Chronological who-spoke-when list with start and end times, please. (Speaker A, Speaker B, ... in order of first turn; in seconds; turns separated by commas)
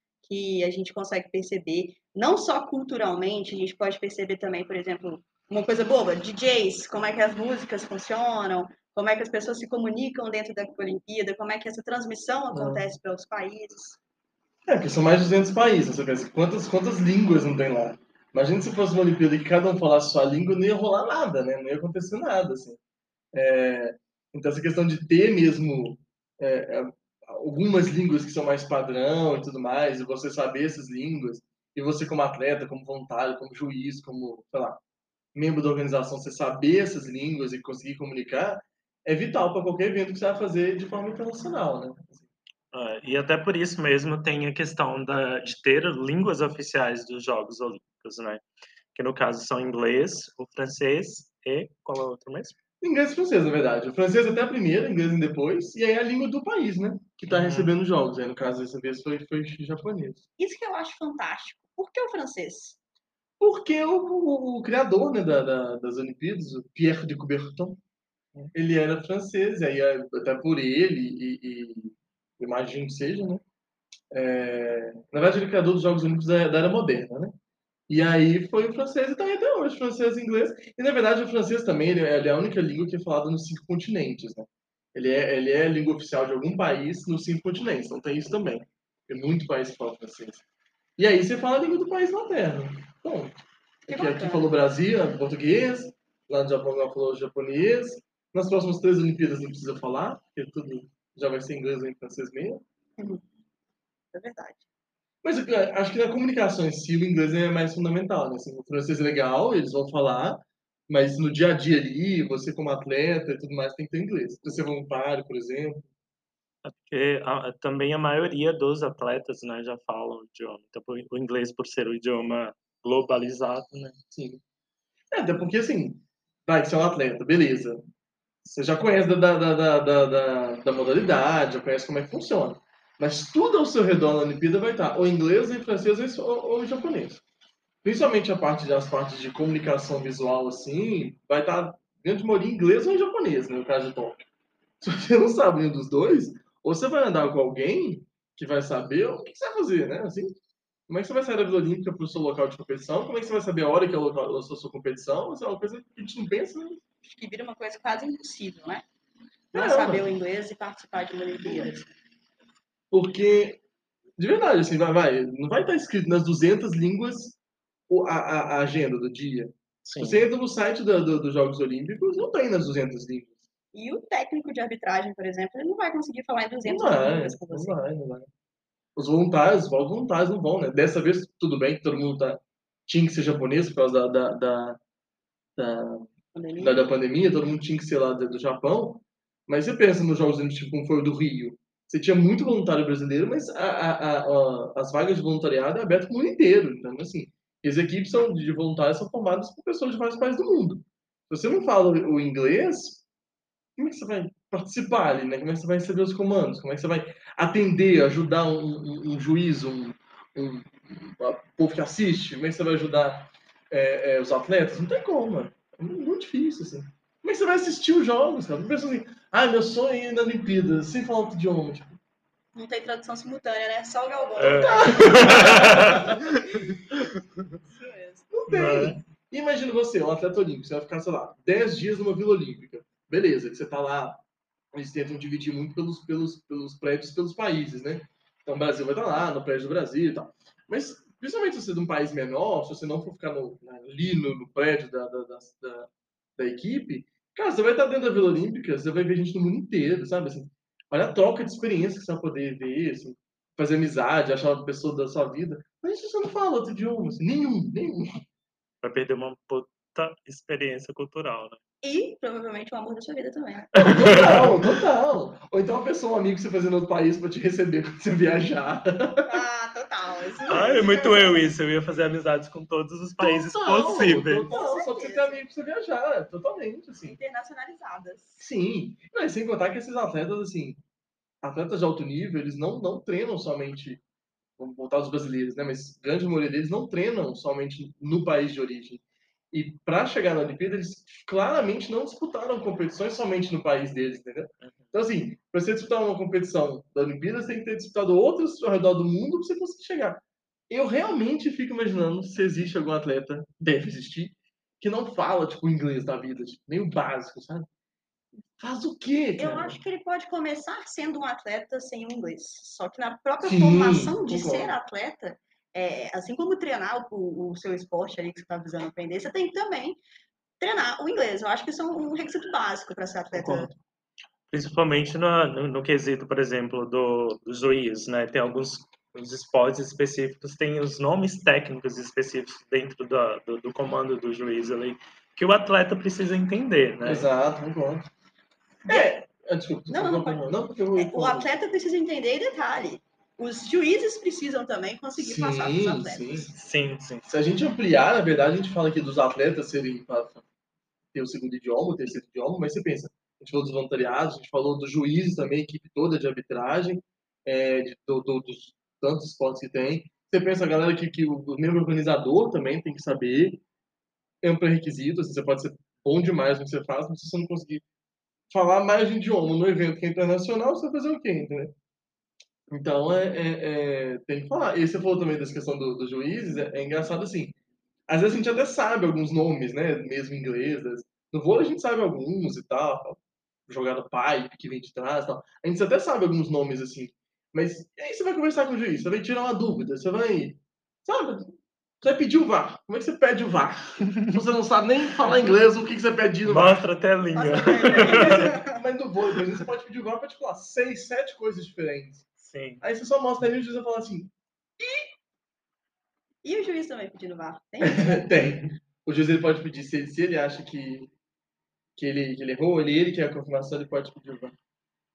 Speaker A: 0.2-14.0, Speaker B: 12.5-12.8, Speaker B: 14.7-22.8, Speaker B: 23.3-34.8, Speaker B: 35.3-42.3, Speaker C: 42.7-48.4, Speaker C: 49.0-52.5, Speaker B: 52.8-60.2, Speaker C: 57.3-57.7, Speaker A: 60.4-62.8, Speaker B: 63.4-67.8, Speaker B: 68.5-73.4, Speaker B: 74.1-77.3, Speaker B: 77.9-90.4, Speaker B: 91.0-93.3, Speaker A: 93.9-94.5, Speaker B: 93.9-102.6, Speaker A: 104.1-104.6, Speaker B: 105.2-115.9, Speaker C: 116.6-124.0, Speaker B: 124.1-124.4, Speaker B: 125.1-127.9, Speaker B: 128.4-137.2, Speaker B: 137.8-144.2, Speaker B: 144.8-150.4, Speaker B: 150.9-156.8, Speaker A: 157.0-158.8, Speaker B: 159.5-160.1, Speaker A: 159.5-161.9, Speaker B: 162.9-163.6, Speaker B: 164.2-167.4, Speaker B: 167.9-173.4, Speaker C: 169.8-170.2, Speaker A: 173.7-177.8, Speaker B: 176.7-178.3, Speaker B: 178.9-184.8, Speaker B: 185.6-203.0, Speaker A: 186.3-186.9, Speaker B: 203.8-222.0, Speaker A: 222.6-226.6, Speaker C: 224.4-227.2, Speaker B: 224.6-226.2, Speaker A: 227.7-228.3, Speaker B: 228.3-258.2, Speaker C: 228.5-229.0, Speaker C: 258.8-261.6, Speaker A: 261.8-263.9, Speaker C: 263.8-264.5, Speaker B: 263.9-269.4, Speaker A: 269.3-271.4, Speaker B: 270.4-271.1, Speaker C: 270.5-274.5, Speaker B: 273.2-277.2, Speaker A: 274.5-275.4, Speaker A: 277.1-278.4, Speaker B: 278.4-280.8, Speaker B: 281.4-284.0, Speaker B: 284.6-307.7, Speaker C: 294.6-294.9, Speaker B: 308.6-309.8, Speaker A: 309.4-320.0, Speaker B: 313.4-314.8, Speaker A: 320.6-323.7, Speaker B: 323.3-323.8, Speaker C: 324.5-337.3, Speaker B: 337.0-338.1, Speaker B: 338.9-341.5, Speaker A: 339.9-346.5, Speaker B: 345.2-346.5, Speaker C: 346.5-347.3, Speaker B: 347.2-350.4, Speaker B: 351.1-363.6, Speaker B: 364.4-367.8, Speaker B: 368.5-371.7, Speaker B: 372.7-377.6, Speaker B: 378.1-391.5, Speaker B: 392.0-396.9, Speaker C: 396.5-398.5, Speaker A: 397.4-398.8, Speaker B: 397.7-402.2, Speaker C: 402.4-402.8, Speaker B: 402.8-405.1, Speaker A: 406.4-408.3, Speaker B: 407.8-411.1, Speaker B: 412.0-414.6